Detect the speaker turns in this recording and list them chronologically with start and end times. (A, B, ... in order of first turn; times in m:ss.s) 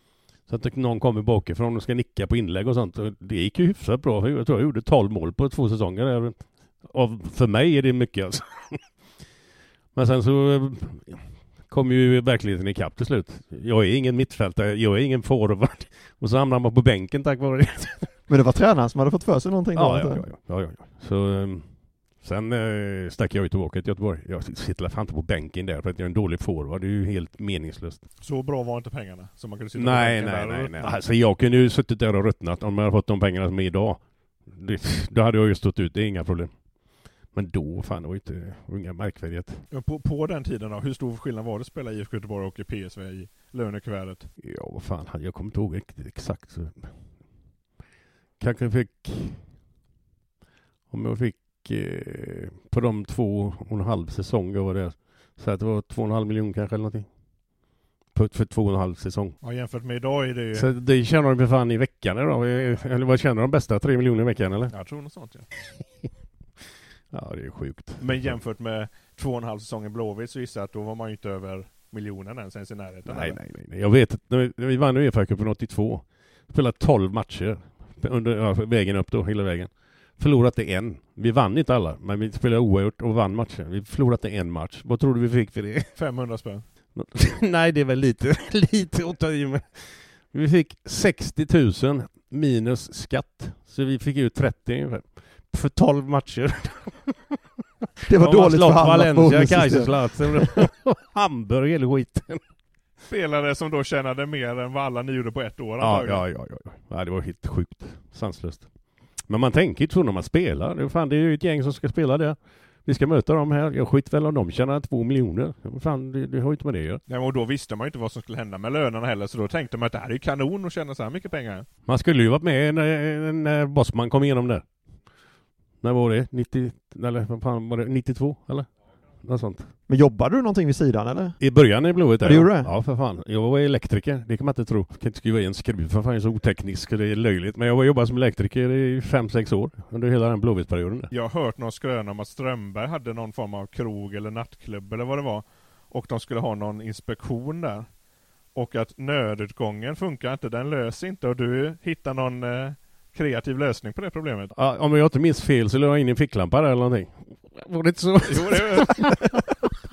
0:00.5-0:08.8 A
0:09.9-0:18.1 A
0:18.3-0:20.3 B
0:19.8-0:28.0 A
0:28.2-0:30.9 C
0:29.8-0:36.7 A
0:37.3-0:39.6 A
0:39.7-0:44.3 C
0:44.4-0:46.9 A
0:48.4-0:49.4 A
0:50.9-0:57.1 A
0:58.1-0:59.4 A
0:59.4-1:00.7 C
1:00.5-1:04.7 A
1:04.7-1:05.5 C
1:07.1-1:08.3 A
1:08.0-1:13.4 C
1:13.1-1:25.9 A
1:26.0-1:26.6 C
1:27.0-1:37.4 A
1:38.1-1:40.5 B
1:38.1-1:42.4 A
1:43.1-1:46.2 C
1:45.8-1:57.0 A
1:57.1-2:01.7 C
2:01.9-2:04.7 A
2:05.8-2:09.7 A
2:09.9-2:11.4 B
2:11.4-2:21.1 A
2:12.2-2:12.7 B
2:21.1-2:28.0 C
2:28.5-2:34.5 C
2:34.6-2:39.4 A
2:38.3-2:39.4 C